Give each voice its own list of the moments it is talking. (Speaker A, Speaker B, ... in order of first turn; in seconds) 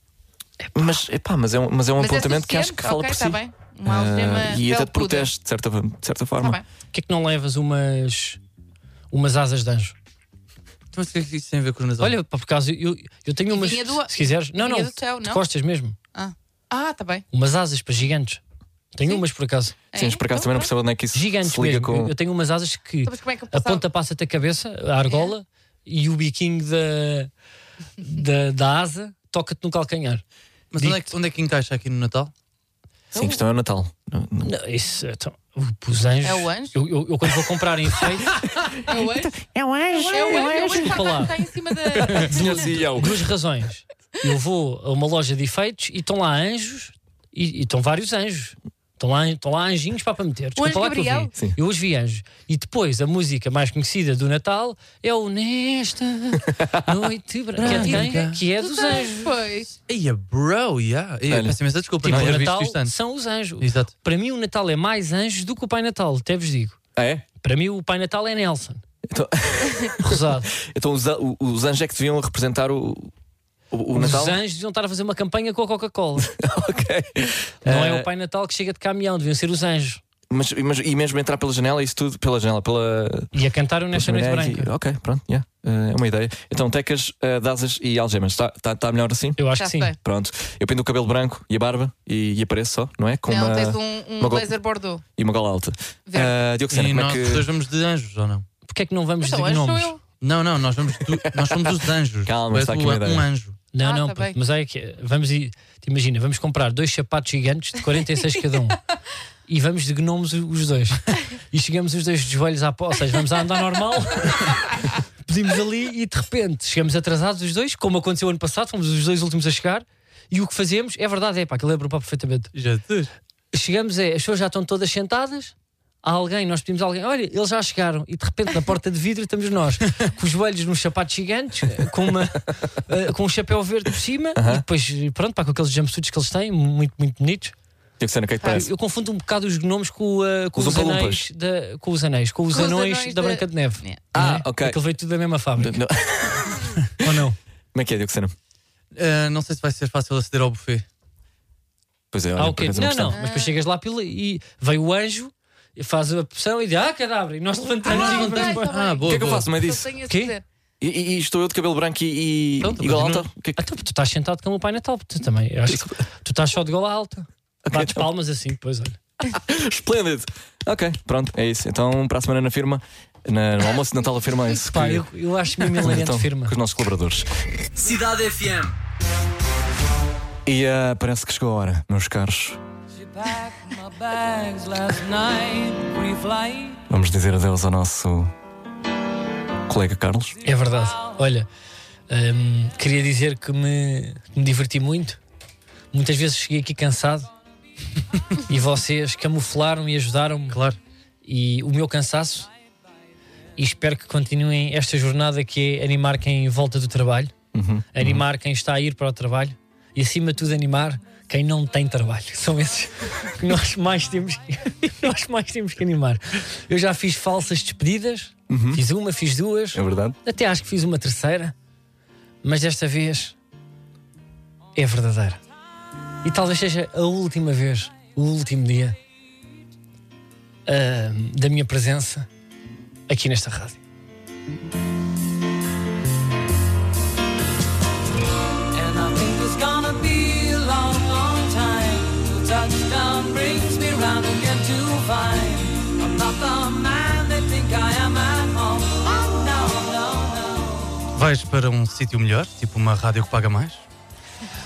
Speaker A: 0.6-0.9, 6.9-8.4, 9.1-9.9, 12.0-16.0, 17.3-18.4, 18.9-19.8, 21.1-27.3, 28.0-30.2, 30.8-31.1, 34.4-38.4, 39.9-41.4, 42.2-59.3, 62.0-66.8, 67.4-68.8, 70.0-70.5, 73.9-76.3, 77.6-80.0, 83.3-84.7, 89.4-89.9, 98.7-99.9, 103.7-108.8, 109.5-122.5, 123.5-137.5, 138.5-145.8, 146.9-147.4, 152.4-158.7, 160.1-160.4, 163.6-169.0, 174.7-176.6, 190.4-191.5, 192.1-195.2, 195.9-197.3, 198.4-200.6, 201.2-202.5, 203.6-207.3, 207.9-221.5, 222.4-223.3, 224.7-225.4, 226.2-229.0, 230.7-232.3, 233.1-233.8
Speaker B: 0.7-6.6, 19.9-22.1, 33.1-34.5, 39.0-40.9, 42.1-43.1, 61.3-62.4, 67.0-67.2, 69.1-73.1, 73.7-74.4, 76.2-78.1, 80.3-83.3, 83.9-89.4, 90.0-94.5, 95.2-97.5, 102.2-103.3, 134.3-134.6, 138.0-138.7, 140.5-141.2, 144.1-144.8, 145.6-146.7, 147.7-148.3, 152.1-153.2, 159.0-159.9, 160.8-163.7, 165.7-165.9, 167.7-168.1, 169.3-175.1, 175.7-178.7, 180.4-182.6, 186.9-188.3, 189.7-190.3, 207.5-208.2, 218.5-218.8, 219.7-220.2
Speaker C: 2.0-5.3, 6.4-6.6, 13.5-15.4, 16.1-17.2, 19.9-20.7, 23.0-23.8, 33.1-33.4, 36.2-36.8, 38.7-39.4, 40.1-42.8, 50.6-51.3, 57.6-59.7, 89.5-89.9, 93.3-95.0, 96.1-96.3, 99.2-100.0, 103.8-104.4, 142.5-144.0, 153.1-153.6, 157.8-160.4
Speaker D: 10.9-12.2, 30.7-32.3, 57.6-58.4, 59.9-62.9, 63.6-63.9, 96.7-98.5, 100.2-103.6, 122.5-123.1, 148.9-150.8, 157.8-159.5, 162.6-163.3, 200.5-200.8, 251.1-253.8
Speaker E: 183.2-186.8, 238.7-251.1